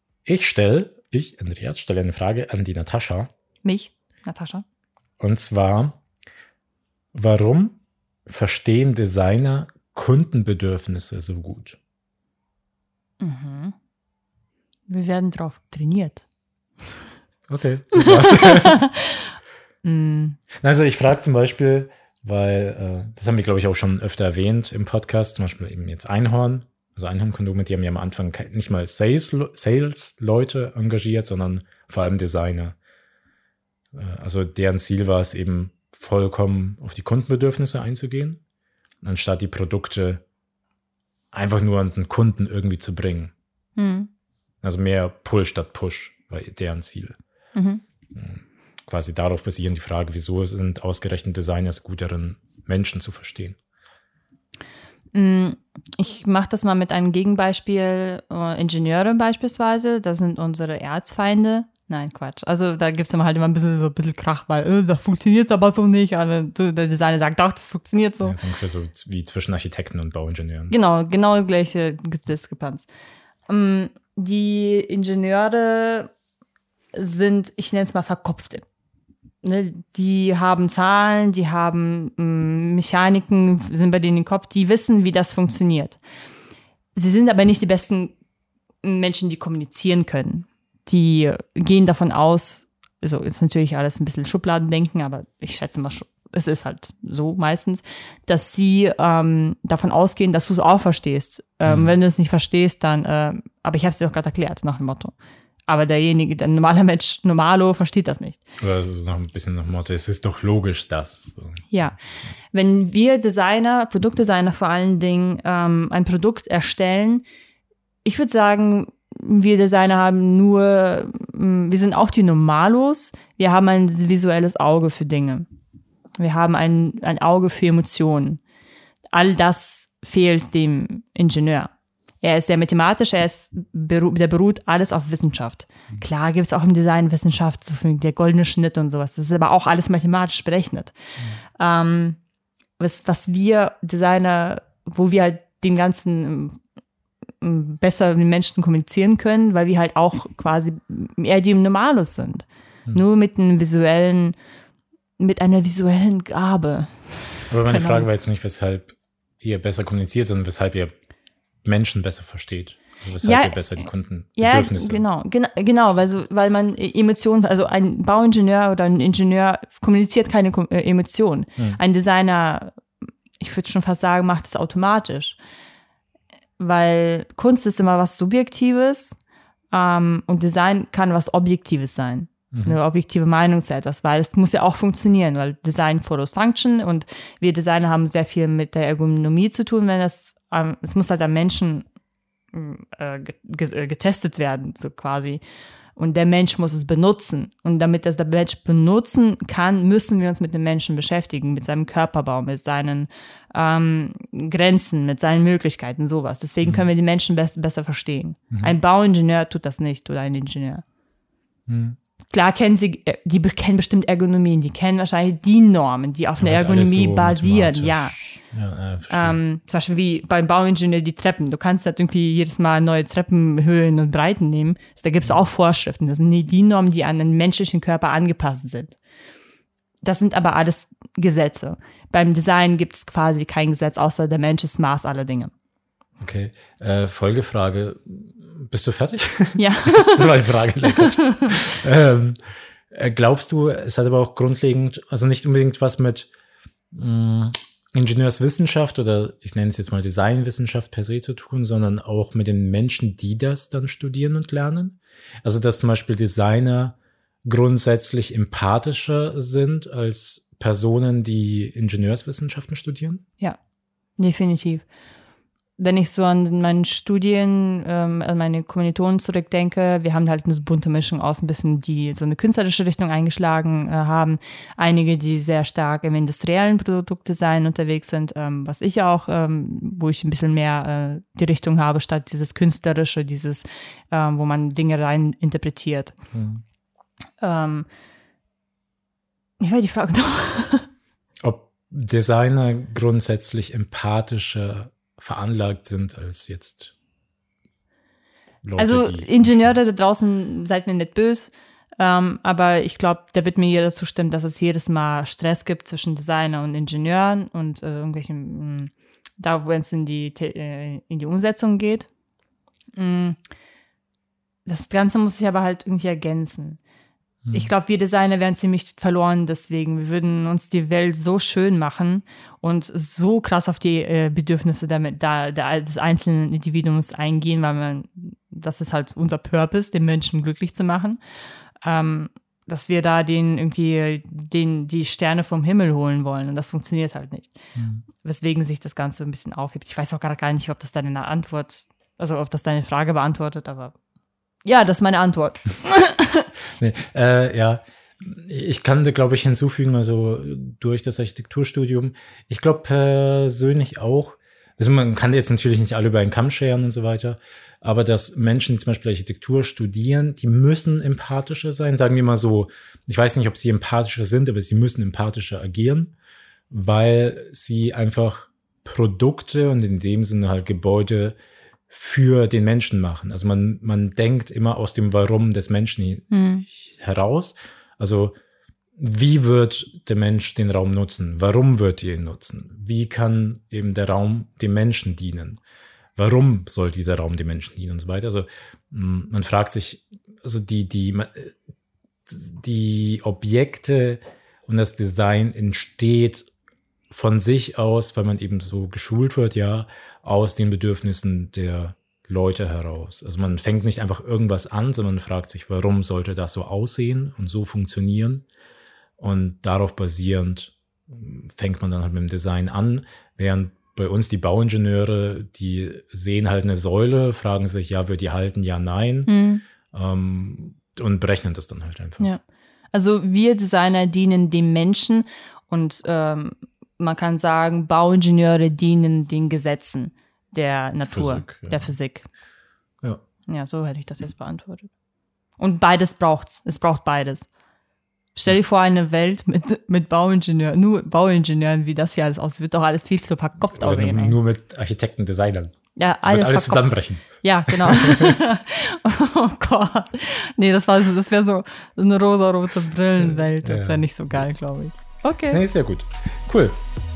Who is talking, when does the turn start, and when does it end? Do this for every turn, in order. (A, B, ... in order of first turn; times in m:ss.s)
0:00.2-0:03.3 A
0:03.6-0:04.6 B
0:05.2-0:06.0 A
0:07.1-0:11.8 A
0:13.2-0:13.7 B
0:14.9-0:16.2 B
0:17.5-0:18.8 A
0:18.0-0:19.2 B
0:19.8-0:20.4 B
0:20.6-0:32.8 A
0:33.9-0:38.4 A
0:39.0-0:40.2 A
0:41.3-0:43.3 A
0:43.8-0:44.1 B
0:44.6-0:47.2 A
0:47.5-0:47.8 B
0:48.1-0:53.6 A
0:55.1-1:08.4 B
1:08.2-1:10.7 A
1:10.7-1:12.9 B
1:13.5-1:16.1 B
1:16.9-1:18.6 B
1:19.4-1:26.0 B
1:26.9-1:28.1 B
1:28.8-1:45.1 B
1:41.6-1:41.9 A
1:45.7-1:48.4 B
1:48.6-1:51.6 A
1:51.7-1:52.0 B
1:52.5-1:57.2 B
1:58.0-2:05.5 B
2:06.2-2:08.4 B
2:09.1-2:20.9 B
2:21.6-2:22.2 B
2:22.8-2:26.6 B
2:27.4-2:34.4 B
2:35.2-2:38.1 B
2:37.5-2:40.9 A
2:41.6-2:45.0 A
2:43.2-2:52.8 B
2:53.4-2:55.4 B
2:56.6-2:59.2 B
2:59.7-3:11.9 B
3:02.5-3:02.8 A
3:12.5-3:15.4 B
3:16.0-3:30.8 B
3:31.7-3:32.0 A
3:32.3-3:38.2 B
3:36.4-3:39.4 A
3:39.1-3:49.0 B
3:50.0-3:55.5 B
3:56.2-4:02.4 A
3:59.6-4:01.5 B
4:02.9-4:06.3 A
4:06.9-4:23.2 A
4:24.2-4:24.8 B
4:25.8-4:46.1 B
4:46.3-4:46.6 A
4:47.4-4:47.9 B
4:49.6-4:50.9 B
4:51.4-4:56.9 A
4:58.6-4:59.8 A
4:58.8-5:12.1 B
5:13.0-5:13.4 B
5:14.6-5:16.8 B
5:17.4-5:17.7 A
5:17.5-5:31.2 B
5:31.8-5:37.6 B
5:37.7-5:38.0 A
5:38.1-5:43.9 B
5:44.6-5:46.5 B
5:46.8-6:06.1 A
6:06.7-6:11.4 A
6:11.9-6:18.3 A
6:16.3-6:16.6 B
6:19.0-6:25.6 A
6:26.2-6:31.5 A
6:32.3-6:36.5 A
6:37.1-6:48.4 A
6:49.2-6:59.3 A
6:59.3-6:59.6 B
6:59.9-7:02.3 A
7:02.9-7:12.3 B
7:11.0-7:11.9 A
7:13.5-7:14.9 B
7:15.6-7:17.5 B
7:18.3-7:24.4 B
7:23.8-7:25.7 A
7:26.0-7:35.6 B
7:26.2-7:28.4 A
7:33.2-7:34.0 A
7:35.5-7:36.8 A